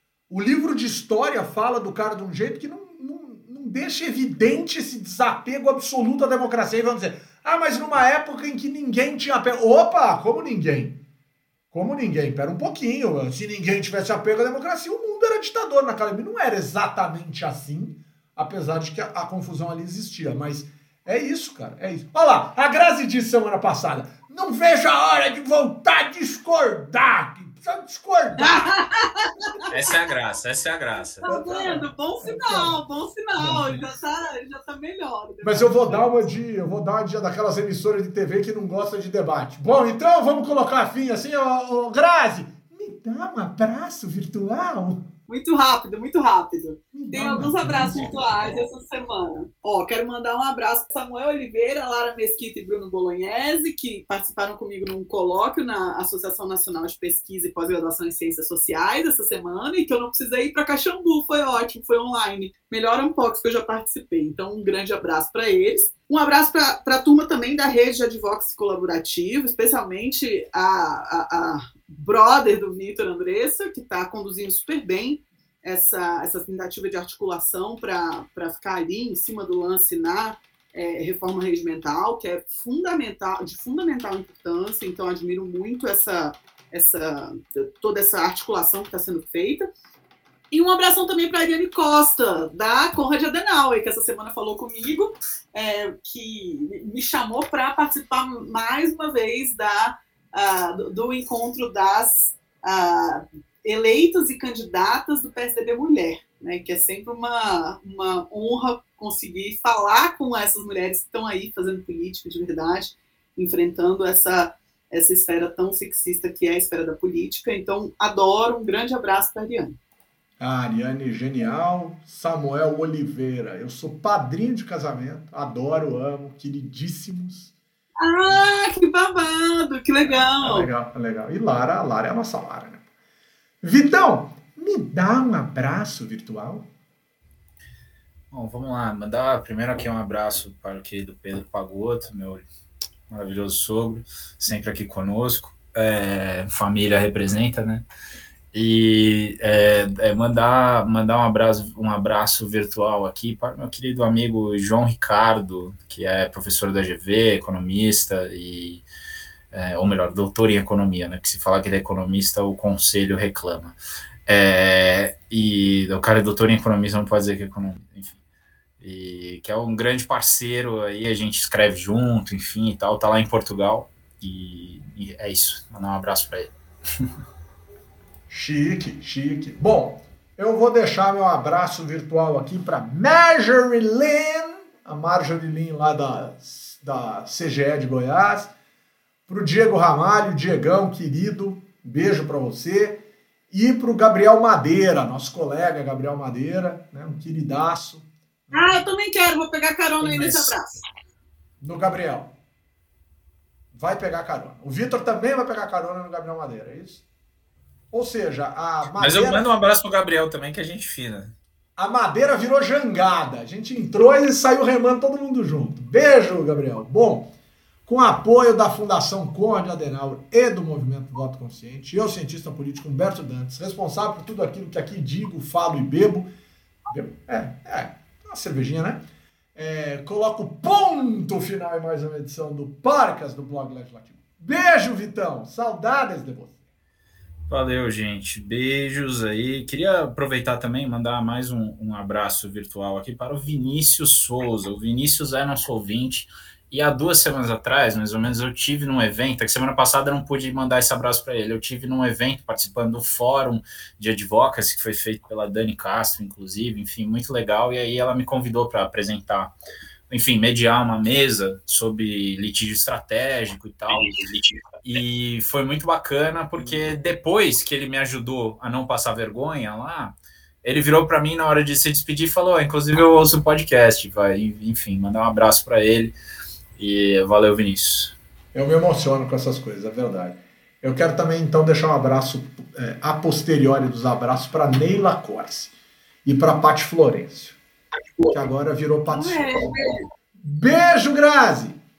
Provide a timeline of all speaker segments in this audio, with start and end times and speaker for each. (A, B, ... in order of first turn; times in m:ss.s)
0:00.3-0:11.0 A
0:11.7-0:28.8 A
0:28.4-0:29.6 B
0:29.7-0:31.3 C
0:31.2-0:36.3 B
0:31.3-0:32.8 A
0:33.4-0:33.9 A
0:35.4-0:45.1 A
0:45.3-1:29.7 B
0:46.9-0:48.4 A
1:30.5-1:59.8 B
2:00.4-2:07.5 A
2:08.0-2:10.7 B
2:10.4-2:12.8 A
2:13.6-2:16.7 A
2:18.3-2:22.4 C
2:23.1-2:27.8 C
2:28.5-2:38.8 C
2:39.5-2:48.2 C
2:48.8-2:57.1 C
2:58.3-3:08.5 A
3:09.3-3:18.8 A
3:18.5-3:20.7 B
3:20.0-3:20.5 C
3:21.6-3:22.3 A
3:23.7-3:27.0 A
3:27.9-3:29.5 A
3:29.0-3:31.4 C
3:31.8-3:37.3 A
3:37.9-3:46.3 A
3:46.9-3:56.6 A
3:57.5-4:19.5 C
4:20.1-4:36.1 C
4:36.8-4:38.2 C
4:38.5-4:45.7 A
4:46.2-4:47.6 A
4:48.3-4:49.7 A
4:49.1-4:50.0 B
4:50.4-4:51.8 A